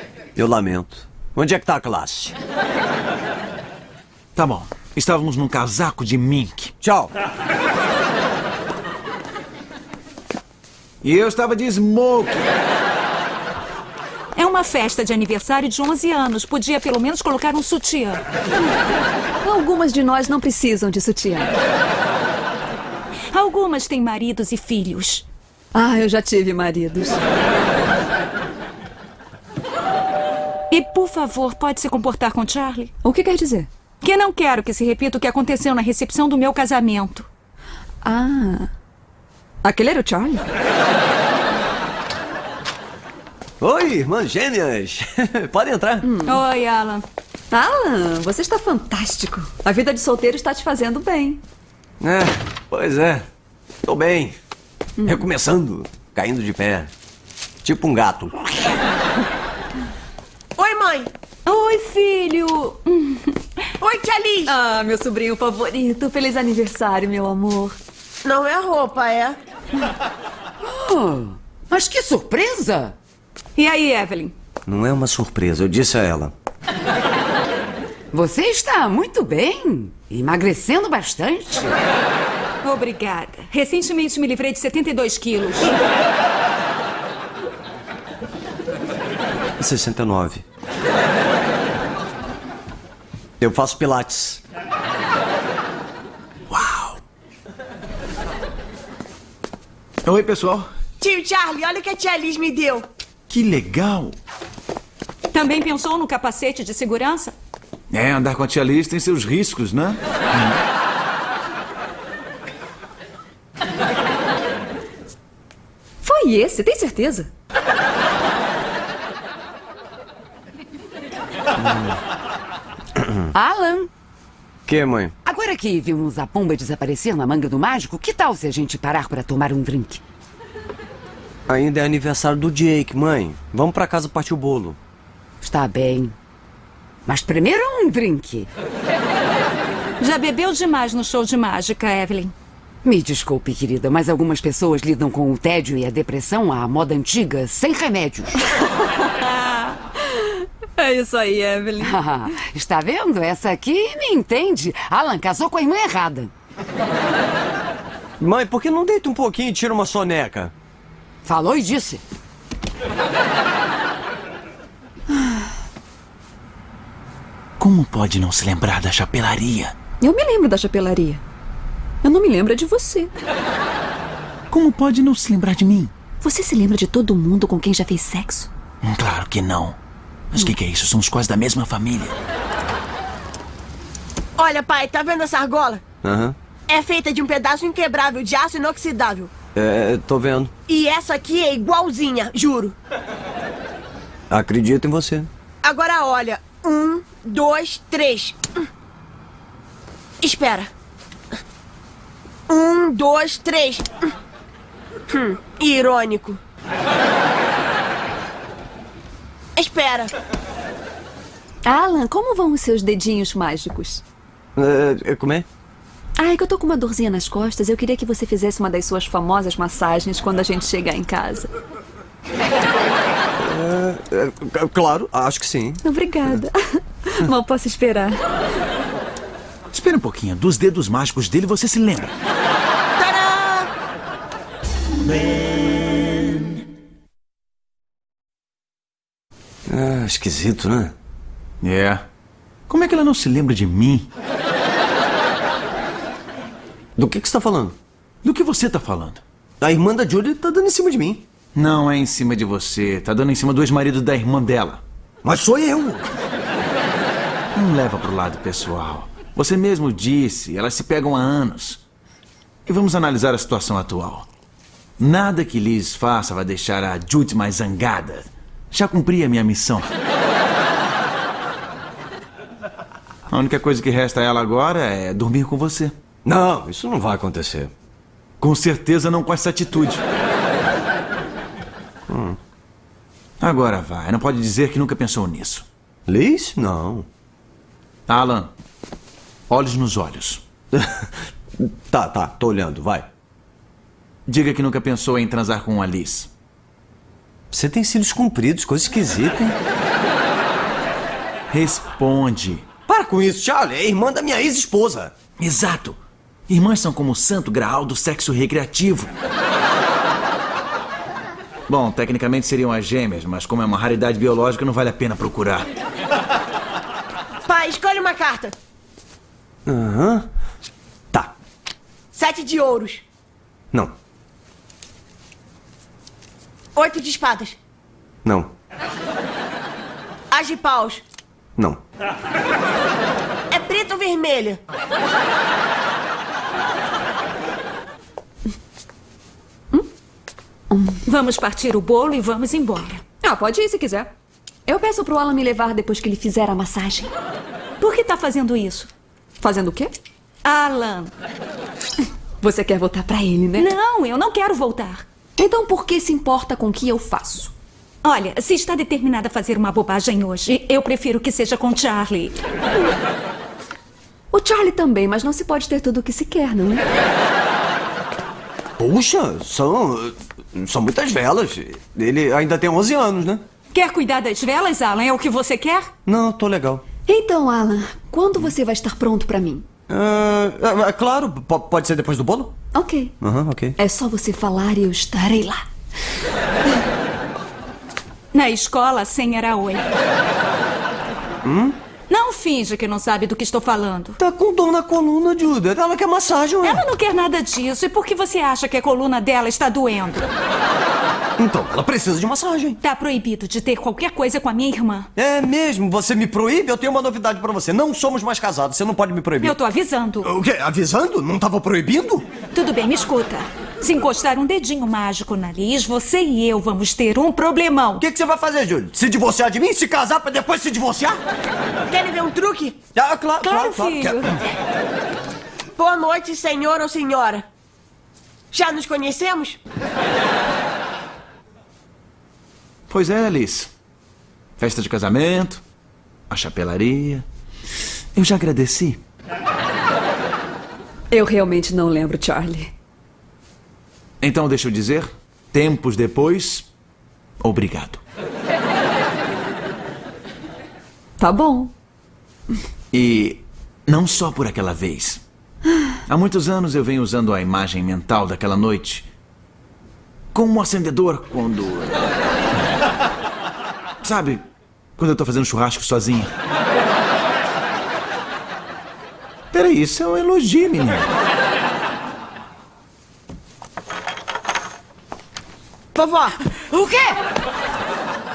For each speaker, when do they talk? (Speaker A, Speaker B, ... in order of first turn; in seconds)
Speaker A: 0.3-2.4, 6.8-7.1, 43.6-46.1, 52.0-53.2, 53.8-54.3, 55.0-56.9, 57.6-58.5, 74.7-76.3, 89.6-90.4, 93.4-94.4, 121.5-122.0, 124.7-125.1, 131.5-134.8, 158.2-160.5, 186.0-186.3, 189.5-190.5, 194.3-195.3, 214.6-215.4, 223.4-225.8, 239.7-240.9, 247.0-247.8, 249.6-251.2, 255.2-256.1, 276.2-277.7, 282.1-282.4, 286.1-287.1, 290.7-293.1, 297.5-299.6, 302.9-305.1, 319.6-320.3, 328.2-328.5, 368.8-373.4, 376.1-376.8, 379.9-382.6, 383.2-383.8, 391.4-391.8, 394.2-396.8, 401.4-402.8, 405.1-409.6, 410.2-412.3, 418.0-421.2, 422.9-424.2
Speaker B: 4.3-6.7, 11.0-12.5, 96.5-97.0, 100.0-100.7, 103.3-104.2, 107.9-110.6, 167.6-169.8, 174.5-175.9, 178.8-179.8, 180.3-182.2, 229.7-232.1, 241.6-242.0, 242.7-244.1, 248.2-249.2, 251.5-254.8, 257.5-261.8, 262.6-264.3, 265.0-269.9, 273.3-275.9, 278.4-280.0, 283.4-285.7, 288.1-288.5, 289.5-290.4, 294.3-296.3, 301.5-302.6, 305.4-309.1, 311.7-315.7, 432.9-433.7, 434.6-435.6, 436.3-437.2, 438.1-439.0, 444.2-446.7, 447.4-448.0, 452.9-455.2, 456.1-459.1, 460.3-462.0, 464.0-464.4, 465.0-466.3, 469.5-471.1
Speaker C: 14.3-18.2, 23.3-25.2, 30.7-32.9, 34.0-37.3, 46.2-47.0, 61.5-63.4, 73.5-74.3, 82.6-85.7, 105.3-107.3, 140.0-142.3, 149.3-149.7, 341.0-343.0, 347.8-348.9, 350.4-351.1, 353.6-355.1, 358.0-362.4, 373.7-375.9, 388.3-389.9, 392.1-394.2, 396.6-400.3, 402.8-405.1, 409.4-410.3, 412.5-418.0, 423.4-424.3
Speaker D: 19.4-21.5, 25.7-27.2, 33.0-33.7, 38.0-38.7, 39.6-40.4, 46.0-46.4, 47.5-51.4, 64.4-67.8, 116.0-117.3, 150.8-152.0, 170.0-171.2, 172.0-173.1, 176.2-178.5, 211.7-214.0, 216.2-221.5, 225.8-228.2, 340.7-341.0, 343.2-344.1, 344.6-347.1, 349.4-349.9, 352.4-353.7, 355.4-357.5, 364.3-366.8, 377.1-379.6, 382.7-383.1, 383.8-385.6, 441.1-442.7, 451.2-451.7
Speaker E: 60.6-61.1, 63.8-64.5, 68.2-69.3, 101.0-102.8, 184.4-185.8, 186.7-189.3, 190.7-192.7, 195.6-198.6, 200.2-200.7, 202.5-204.1, 205.1-206.4, 209.6-210.1, 233.0-233.7, 317.4-318.5, 322.1-323.0, 326.8-327.6, 330.3-331.0, 333.5-334.6, 421.9-422.8, 425.8-427.4, 428.5-429.6, 475.9-476.3
Speaker F: 70.6-72.9, 78.1-81.8, 123.3-123.9, 125.2-130.0, 135.4-136.2, 137.1-138.5, 142.8-148.4, 151.8-156.3, 161.2-162.0, 476.6-477.2